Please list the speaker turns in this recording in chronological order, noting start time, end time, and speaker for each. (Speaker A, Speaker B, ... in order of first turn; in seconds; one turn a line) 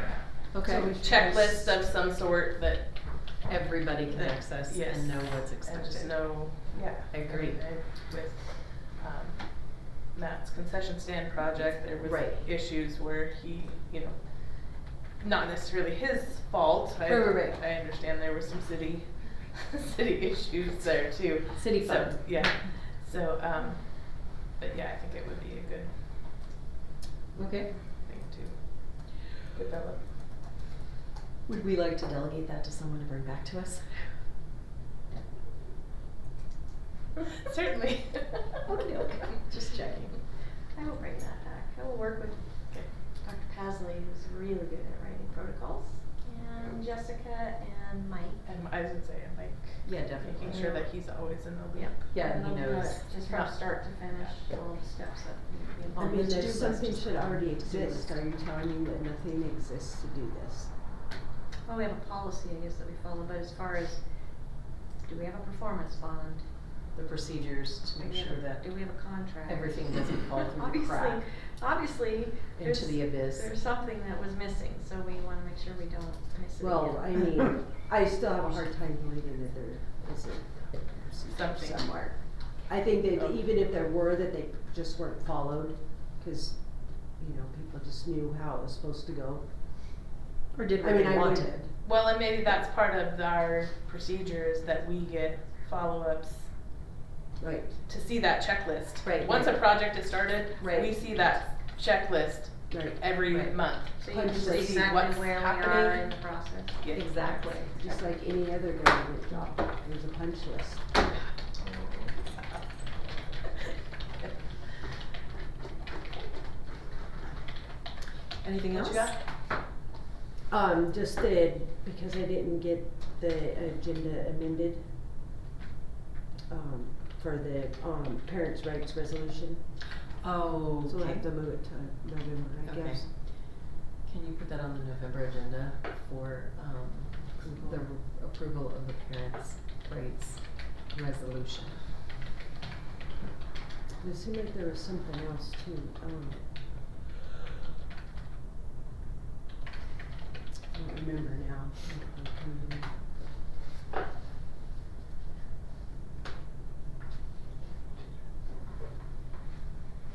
Speaker A: 0.5-1.0
Speaker B: 0.6-1.8
Speaker C: 0.8-3.4
Speaker A: 3.4-7.7
Speaker C: 4.1-26.4
Speaker A: 12.0-12.5
Speaker A: 17.0-17.6
Speaker A: 21.5-22.6
Speaker A: 27.3-27.8
Speaker C: 27.7-30.2
Speaker A: 31.4-34.2
Speaker C: 37.3-38.6
Speaker A: 38.7-40.2
Speaker D: 38.8-39.3
Speaker D: 40.7-48.4
Speaker C: 48.4-52.0
Speaker A: 49.8-50.8
Speaker D: 50.4-51.2
Speaker D: 51.7-56.4
Speaker A: 52.1-53.1
Speaker C: 53.2-54.4
Speaker B: 56.0-60.7
Speaker A: 56.0-58.2
Speaker D: 61.6-64.3
Speaker D: 65.0-66.5
Speaker A: 66.9-71.2
Speaker D: 67.9-77.3
Speaker A: 72.5-73.6
Speaker B: 76.6-90.0
Speaker C: 81.3-82.2
Speaker C: 83.1-83.4
Speaker A: 90.5-91.6
Speaker B: 90.8-91.7
Speaker C: 91.8-96.7
Speaker B: 97.4-97.8
Speaker C: 97.8-106.2
Speaker A: 99.0-99.9
Speaker A: 100.6-101.0
Speaker B: 102.7-103.1
Speaker A: 103.2-103.5
Speaker D: 104.0-106.8
Speaker B: 104.0-104.9
Speaker C: 106.8-108.0
Speaker A: 106.9-107.8
Speaker B: 107.7-110.8
Speaker C: 111.5-112.6
Speaker A: 118.4-119.2
Speaker C: 118.7-119.2
Speaker B: 120.5-125.0
Speaker B: 126.5-129.7
Speaker A: 130.2-131.5
Speaker B: 130.8-133.1
Speaker A: 132.6-141.9
Speaker B: 137.4-137.9
Speaker B: 144.0-146.9
Speaker B: 150.7-153.0